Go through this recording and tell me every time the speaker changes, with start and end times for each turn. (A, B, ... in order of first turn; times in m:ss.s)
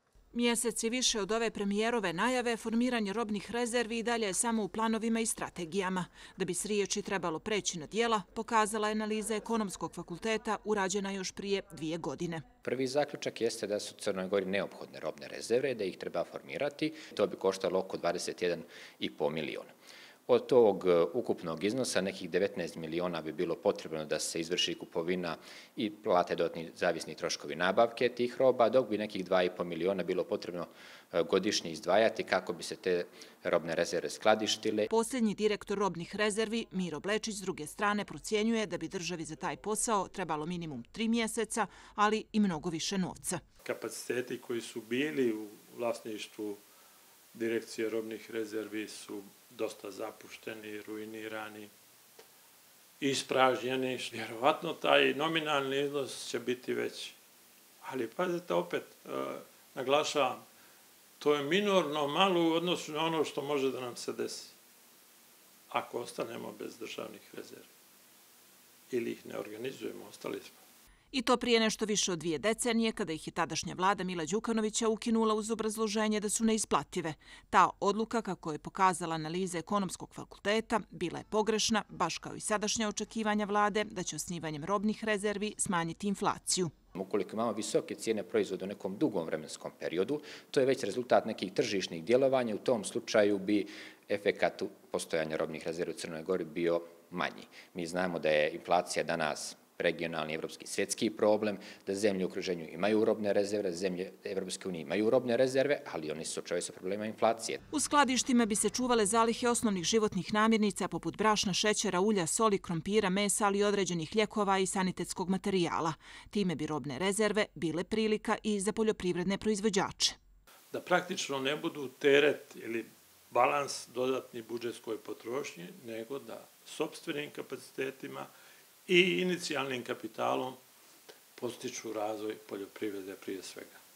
0:00.3-0:12.4 A
0:12.6-0:19.7 B
0:20.3-0:34.9 B
0:34.9-0:43.4 A
0:43.6-0:46.6 C
0:47.3-0:51.7 C
0:53.0-0:57.2 C
0:57.8-1:00.4 C
1:01.2-1:04.5 C
1:05.7-1:07.7 C
1:08.9-1:10.6 C
1:11.1-1:26.7 A
1:27.0-1:47.6 B
1:47.7-2:00.2 A
2:00.7-2:08.3 C
2:08.9-2:10.6 C
2:11.4-2:13.8 C